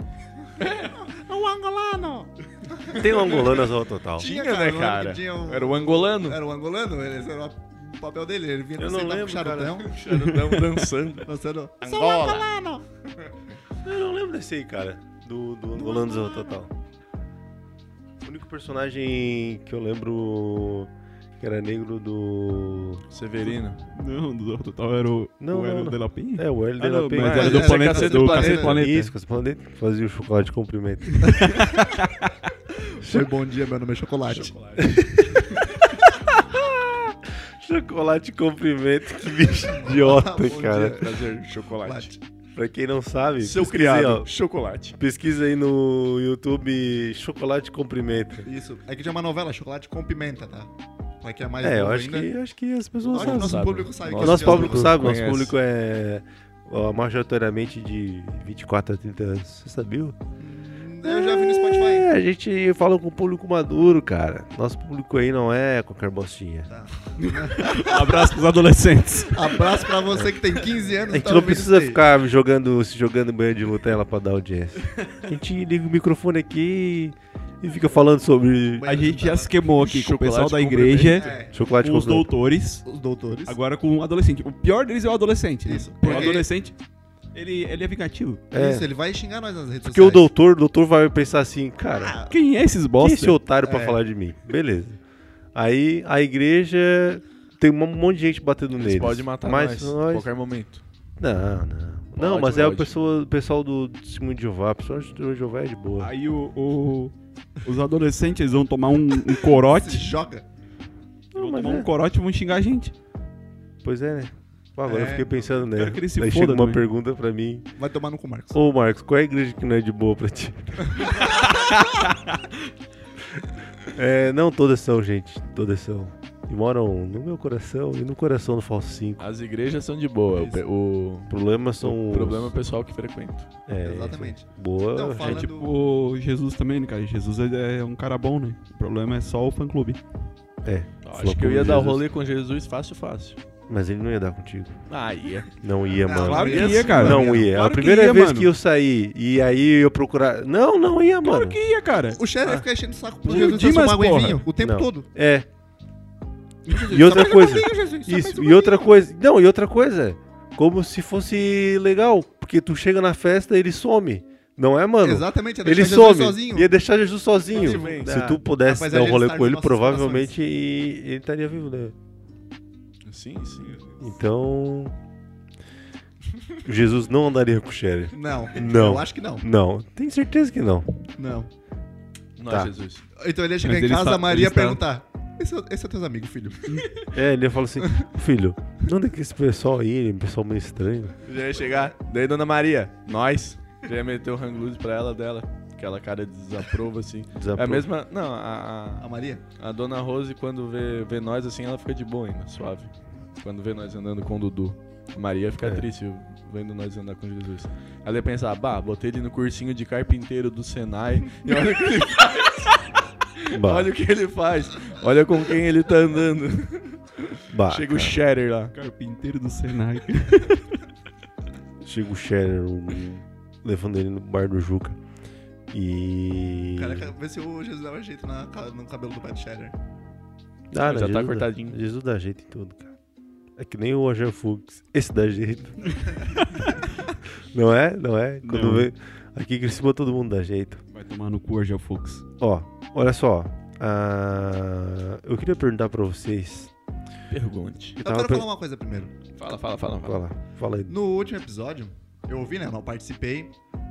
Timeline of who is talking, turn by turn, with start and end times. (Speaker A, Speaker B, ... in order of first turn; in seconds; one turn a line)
Speaker A: 0.4-9.9
Speaker B: 0.6-0.9
Speaker C: 3.0-4.3
Speaker B: 3.0-3.6
Speaker B: 4.2-6.4
Speaker C: 8.8-9.8
Speaker B: 9.8-11.3
Speaker A: 11.2-12.8
Speaker B: 11.8-12.5
Speaker C: 13.8-16.7
Speaker A: 15.7-16.6
Speaker C: 18.2-23.0
Speaker B: 23.1-23.8
Speaker D: 23.5-29.1
Speaker C: 25.4-27.6
Speaker A: 27.2-28.8
Speaker B: 27.4-28.7
Speaker C: 28.5-31.7
Speaker A: 31.2-31.9
Speaker D: 31.6-32.2
Speaker A: 32.9-34.6
Speaker C: 33.0-33.3
Speaker B: 34.3-35.0
Speaker C: 34.8-41.0
Speaker A: 35.5-35.9
Speaker A: 39.7-42.2
Speaker B: 40.9-42.1
Speaker C: 42.5-44.3
Speaker B: 43.4-45.0
Speaker C: 45.0-48.5
Speaker A: 48.4-52.3
Speaker C: 51.6-60.2
Speaker B: 53.1-55.5
Speaker A: 53.1-55.1
Speaker A: 60.4-62.1
Speaker C: 61.0-66.7
Speaker A: 66.7-68.4
Speaker D: 67.2-69.9
Speaker A: 69.3-72.0
Speaker C: 71.1-78.9
Speaker A: 78.8-79.6
Speaker D: 78.8-82.8
Speaker B: 79.7-81.3
Speaker A: 81.1-81.5
Speaker C: 81.5-82.3
Speaker A: 82.8-83.6
Speaker D: 83.5-86.8
Speaker A: 85.7-86.5
Speaker D: 87.3-88.4
Speaker C: 88.5-88.9
Speaker A: 88.5-90.3
Speaker C: 89.8-92.2
Speaker A: 91.9-92.3
Speaker D: 92.3-93.4
Speaker C: 93.0-95.0
Speaker A: 93.6-94.0
Speaker C: 95.5-100.3
Speaker B: 98.8-100.8
Speaker C: 101.2-106.1
Speaker B: 102.2-102.9
Speaker D: 106.0-110.1
Speaker A: 109.3-110.5
Speaker C: 111.3-111.9
Speaker D: 111.3-112.9
Speaker C: 113.8-117.7
Speaker A: 114.9-115.3
Speaker D: 115.7-116.8
Speaker A: 117.8-118.6
Speaker C: 118.5-121.2
Speaker B: 121.6-122.2
Speaker C: 123.8-129.2
Speaker B: 129.2-133.5
Speaker A: 130.4-130.6
Speaker C: 131.3-132.5
Speaker C: 133.7-135.5
Speaker A: 133.8-135.7
Speaker D: 135.2-140.0
Speaker C: 140.6-142.0
Speaker B: 141.0-143.4
Speaker C: 143.7-144.8
Speaker B: 144.9-145.6
Speaker C: 145.6-151.6
Speaker A: 146.0-147.5
Speaker D: 146.2-148.5
Speaker B: 146.3-147.1
Speaker D: 151.2-152.2
Speaker A: 152.2-155.1
Speaker D: 153.2-154.4
Speaker C: 154.6-155.5
Speaker D: 156.7-157.5
Speaker A: 156.7-158.9
Speaker C: 156.9-171.9
Speaker A: 165.0-166.7
Speaker A: 167.5-170.3
Speaker B: 167.5-168.2
Speaker B: 173.1-173.8
Speaker C: 174.0-174.9
Speaker C: 176.6-180.9
Speaker A: 178.1-179.5
Speaker A: 181.2-181.5
Speaker B: 182.4-183.1
Speaker A: 183.2-187.1
Speaker D: 183.6-184.8
Speaker D: 186.7-187.0
Speaker C: 187.1-191.2
Speaker A: 187.8-188.1
Speaker B: 191.2-199.1
Speaker A: 191.6-191.9
Speaker C: 197.3-197.9
Speaker A: 199.0-199.4
Speaker B: 199.6-218.7
Speaker C: 213.5-213.9
Speaker C: 217.5-218.2
Speaker D: 218.8-220.8
Speaker C: 221.8-225.0
Speaker C: 225.7-227.1
Speaker A: 226.8-229.8
Speaker C: 230.7-232.9
Speaker B: 230.8-231.8
Speaker C: 233.6-236.0
Speaker D: 236.4-236.7
Speaker C: 237.4-240.8
Speaker D: 238.4-238.9
Speaker D: 240.9-242.3
Speaker C: 242.4-246.7
Speaker B: 247.3-248.0
Speaker C: 248.0-248.5
Speaker A: 248.0-249.1
Speaker B: 249.4-250.2
Speaker C: 250.0-251.0
Speaker A: 250.9-253.5